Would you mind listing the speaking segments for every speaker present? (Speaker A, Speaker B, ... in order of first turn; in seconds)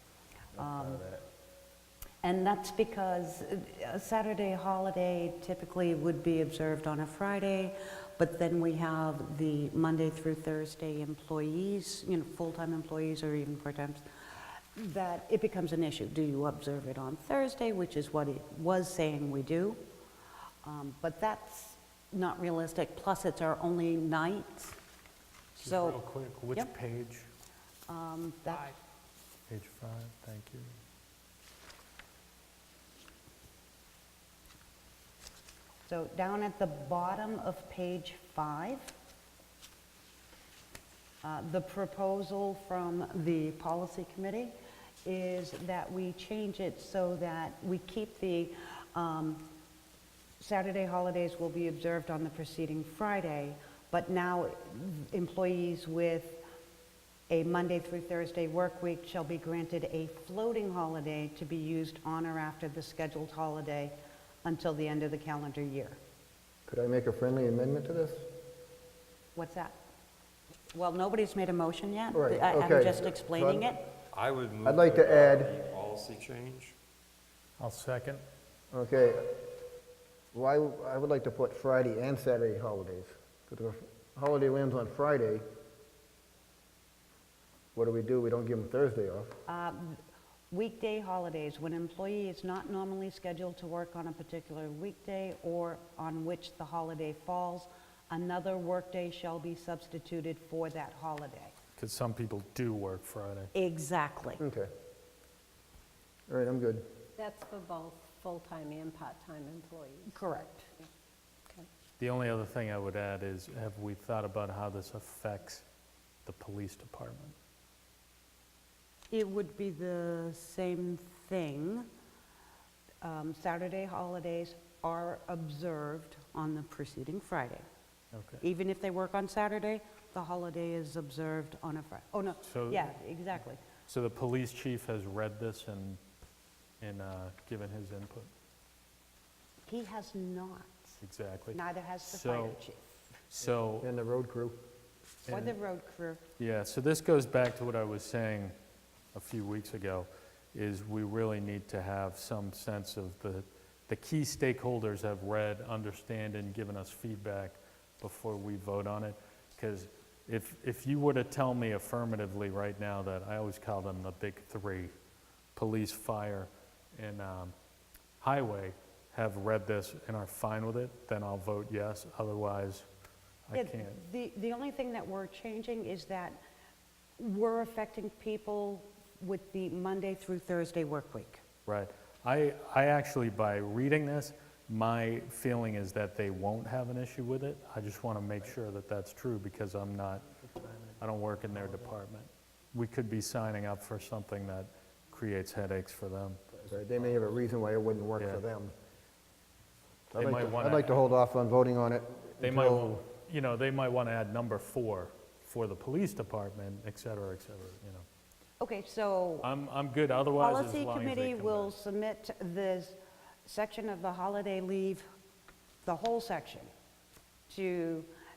Speaker A: 0.6-1.0, 2.2-14.0, 14.7-19.8, 20.6-24.8, 25.6-26.0, 27.9-28.7, 35.9-38.9, 41.2-44.5, 45.0-49.5, 50.4-56.4, 57.3-66.0, 69.3-69.8, 70.7-73.9, 89.5-101.5, 103.5-104.4, 110.1-110.7, 119.1-121.9, 123.0-127.7, 128.4-133.6, 139.7-141.0, 141.5-142.8, 145.3-146.2, 173.5-176.4, 177.2-181.4, 208.6-209.5, 210.4-215.1, 215.8-216.7, 217.5-218.1
Speaker B: 0.6-1.2, 66.7-68.3, 72.1-73.7, 74.6-75.5, 78.7-79.4, 80.3-85.4, 87.7-89.3, 104.4-104.7, 106.3-106.8, 143.8-144.6, 196.7-198.7, 200.1-202.9
Speaker C: 25.6-27.3, 29.5-30.7, 77.6-78.2, 101.8-103.5, 112.0-115.6, 116.2-117.3, 128.1-128.4, 132.4-132.9, 133.9-136.0, 136.8-138.3, 141.0-142.6, 143.3-143.9, 145.3-145.5, 146.4-148.5, 149.1-164.9, 165.5-167.5, 168.2-172.9, 173.5-174.0, 181.7-196.6, 198.2-198.4, 200.1-201.0, 202.4-208.0, 209.4-211.7
Speaker D: 74.1-76.8
Speaker E: 107.2-110.8